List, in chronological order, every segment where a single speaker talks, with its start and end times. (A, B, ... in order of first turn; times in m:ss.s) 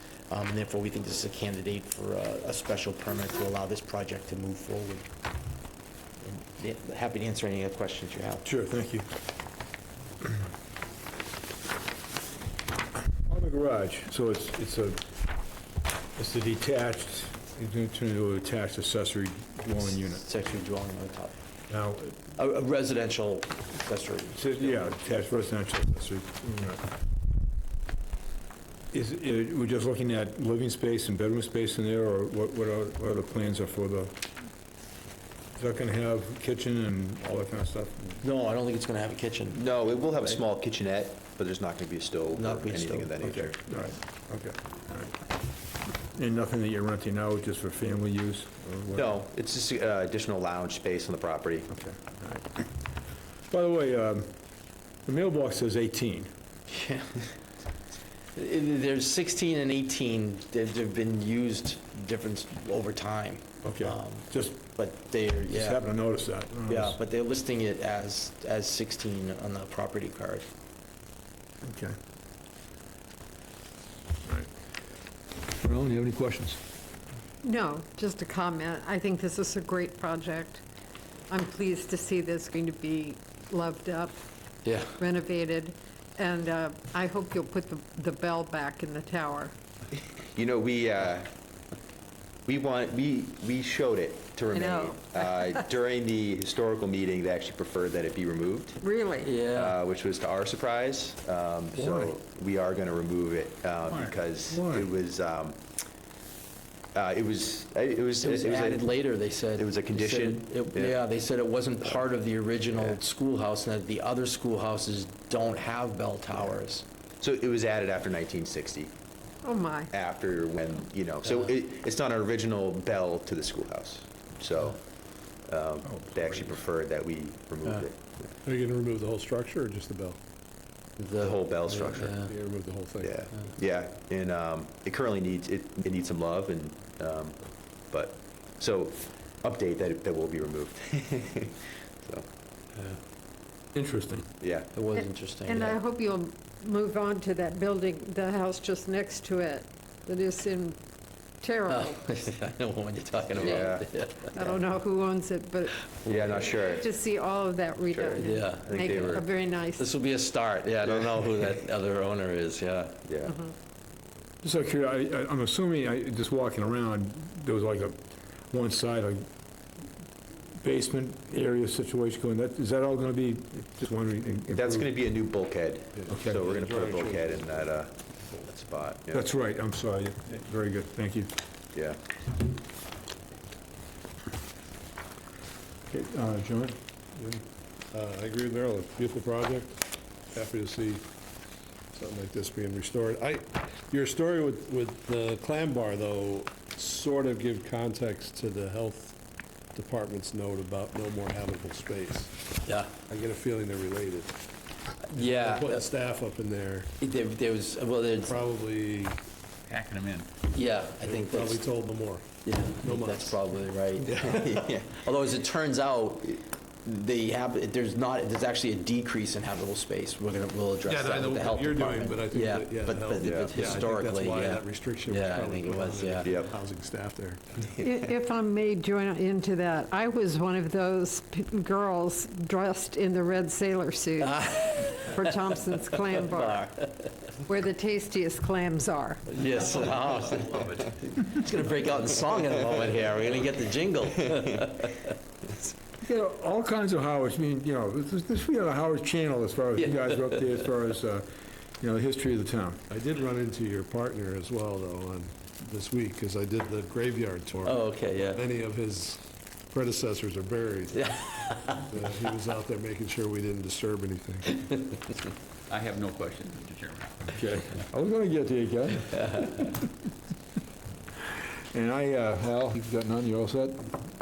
0:00.3-0:05.1 A
0:06.2-0:08.4 A
0:08.4-0:09.0 B
0:13.2-0:15.0 B
0:16.2-0:20.2 B
0:19.8-0:21.4 A
0:21.7-0:22.2 B
0:22.3-0:24.9 A
0:24.4-0:26.8 B
0:28.9-0:34.1 B
0:35.6-0:38.2 B
0:38.2-0:40.4 A
0:39.5-0:43.6 C
0:42.4-0:43.2 A
0:43.2-0:45.2 B
0:46.2-0:49.1 B
0:48.9-0:51.7 C
0:51.7-0:52.7 B
0:53.5-0:54.3 B
0:55.1-0:56.3 B
0:56.7-0:57.3 A
0:58.4-1:05.9 A
1:03.6-1:04.6 B
1:05.5-1:07.0 B
1:06.7-1:10.5 A
1:11.6-1:12.0 B
1:15.6-1:16.6 B
1:17.4-1:20.6 D
1:21.3-1:24.2 D
1:24.6-1:25.0 A
1:25.0-1:29.5 D
1:30.2-1:31.3 C
1:32.5-1:38.8 C
1:34.5-1:35.6 D
1:38.8-1:39.4 D
1:39.2-1:39.8 A
1:39.4-1:45.6 C
1:41.8-1:42.1 B
1:44.5-1:44.8 B
1:46.9-1:48.9 C
1:48.2-1:56.9 A
1:49.6-1:51.0 C
1:57.2-1:58.9 C
1:59.4-1:59.9 D
1:59.9-2:04.9 C
2:05.4-2:08.3 C
2:08.4-2:10.2 E
2:11.0-2:12.3 A
2:11.2-2:12.2 C
2:12.2-2:13.2 E
2:13.0-2:22.3 C
2:23.8-2:24.3 B
2:24.4-2:24.7 C
2:24.7-2:25.8 A
2:24.9-2:30.8 D
2:31.4-2:32.0 D
2:31.7-2:34.6 A
2:33.4-2:33.9 C
2:33.4-2:33.7 D
2:34.3-2:39.9 D
2:36.0-2:36.5 A
2:36.1-2:36.9 C
2:37.9-2:39.3 C
2:38.2-2:39.2 A
2:39.8-2:43.0 A
2:40.8-2:41.3 C
2:43.1-2:43.4 C
2:44.4-2:48.0 B
2:48.5-2:49.2 B
2:50.6-2:54.9 B
2:54.5-2:59.2 C
2:56.0-2:57.6 E
2:56.1-2:56.4 B
2:59.1-3:01.3 B
3:05.9-3:06.8 B
3:07.3-3:09.8 E
3:10.3-3:11.0 E
3:11.9-3:19.2 E
3:19.7-3:22.3 E
3:22.7-3:22.9 A
3:23.1-3:24.3 E
3:25.1-3:26.9 E
3:25.1-3:25.8 A
3:27.0-3:28.4 A
3:28.3-3:29.2 E
3:29.7-3:30.3 F
3:30.5-3:31.6 A
3:31.0-3:33.4 E
3:32.4-3:46.4 A
3:34.0-3:34.5 E
3:34.2-3:35.0 C
3:40.8-3:47.7 E
3:43.2-3:43.6 C
3:46.2-3:46.5 C
3:47.8-3:56.8 D
3:54.2-3:55.4 A
3:56.0-3:56.9 A
3:57.5-3:59.3 D
3:59.3-4:05.1 A
4:06.0-4:11.2 B
4:09.8-4:10.4 A
4:11.8-4:12.8 B
4:12.9-4:21.1 E
4:17.6-4:18.4 A
4:20.9-4:21.8 A
4:21.9-4:24.7 E
4:25.7-4:27.2 F
4:27.3-4:29.6 B
4:31.7-4:33.9 B